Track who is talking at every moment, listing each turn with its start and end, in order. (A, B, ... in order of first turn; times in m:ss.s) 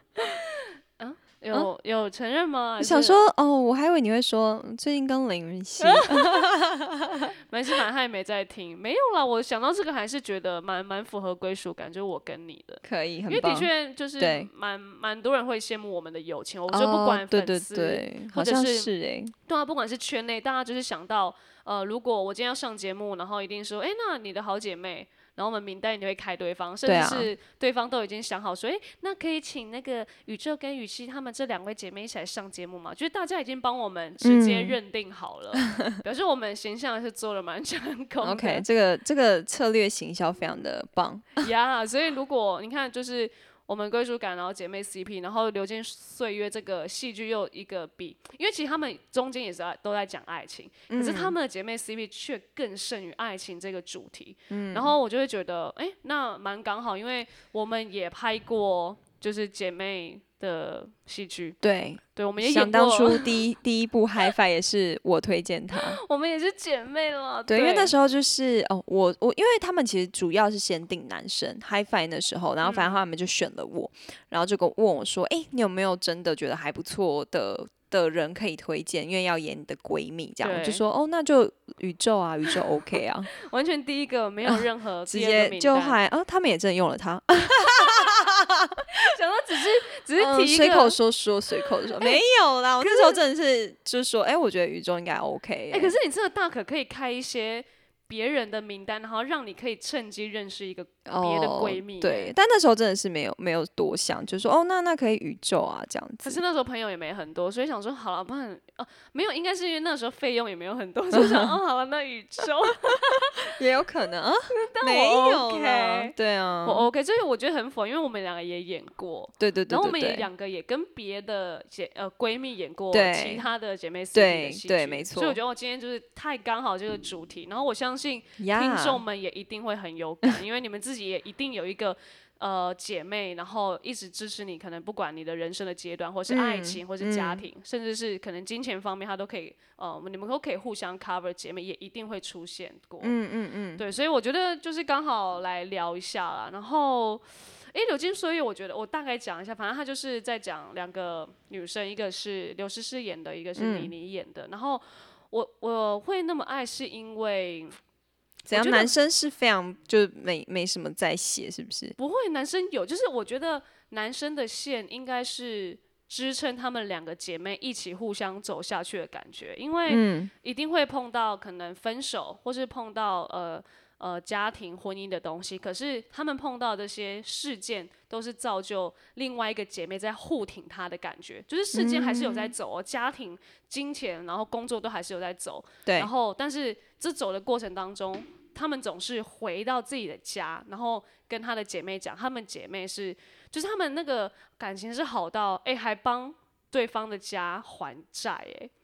0:00.2-0:03.2 A
0:02.8-0:07.3 B
0:05.8-0:06.5 A
0:07.5-0:18.9 A
0:12.8-0:14.5 B
0:16.7-0:19.3 B
0:19.5-0:38.6 A
0:26.8-0:27.3 B
0:34.2-0:34.8 B
0:38.2-0:41.4 B
0:41.4-1:01.6 A
0:50.9-0:51.4 B
0:54.5-0:55.0 B
1:01.6-1:06.0 B
1:02.2-1:03.4 A
1:05.7-1:07.9 A
1:07.5-1:23.3 B
1:12.6-1:13.0 A
1:20.4-1:20.8 A
1:23.3-1:26.0 A
1:24.5-1:29.0 B
1:27.5-1:28.2 A
1:28.9-1:31.0 A
1:30.2-1:35.9 B
1:32.8-1:33.2 A
1:35.7-1:42.3 A
1:41.1-1:46.4 B
1:46.2-1:53.5 A
1:51.1-1:51.6 B
1:53.4-1:56.9 B
1:54.5-2:23.1 A
1:59.4-2:00.3 B
2:02.9-2:03.5 B
2:04.1-2:05.4 B
2:08.4-2:09.0 B
2:16.3-2:17.4 B
2:23.0-2:23.8 B
2:23.8-2:37.8 A
2:33.6-2:33.9 B
2:38.5-2:38.9 A
2:38.5-2:42.0 B
2:42.0-3:18.7 A
2:49.9-2:50.3 B
3:01.7-3:02.5 B
3:05.9-3:06.1 B